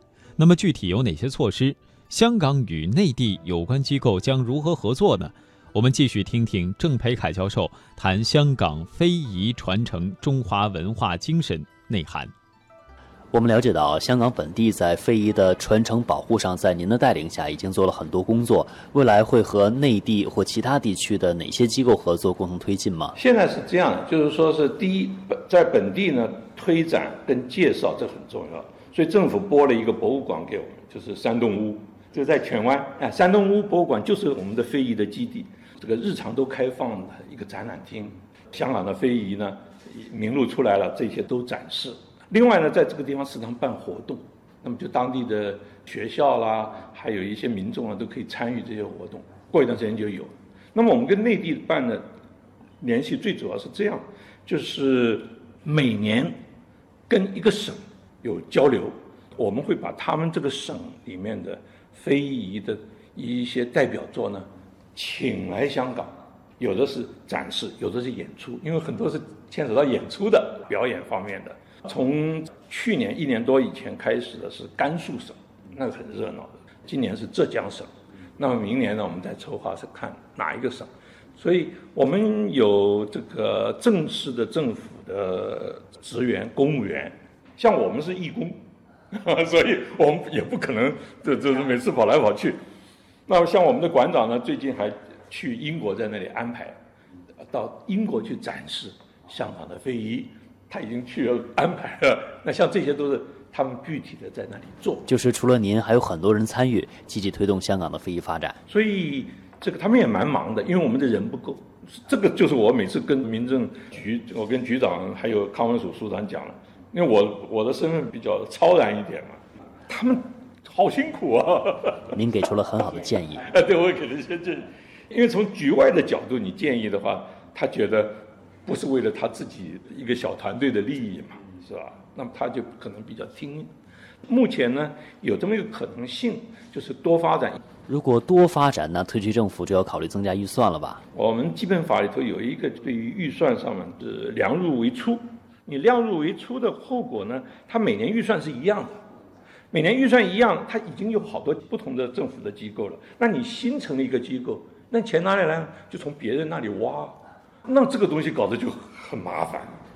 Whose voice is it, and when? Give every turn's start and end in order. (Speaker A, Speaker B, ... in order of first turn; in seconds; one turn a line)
Speaker A: 0.4-12.3
Speaker B: 13.3-23.1
Speaker C: 23.1-52.0
Speaker C: 52.8-56.3
Speaker C: 57.1-88.6
Speaker C: 89.1-92.6
Speaker C: 93.3-96.7
Speaker C: 97.5-105.1
Speaker B: 105.1-108.6
Speaker C: 108.7-122.2
Speaker B: 122.1-123.5
Speaker C: 123.4-133.7
Speaker C: 134.3-137.6
Speaker B: 137.9-141.0
Speaker C: 141.1-149.0
Speaker C: 149.7-159.8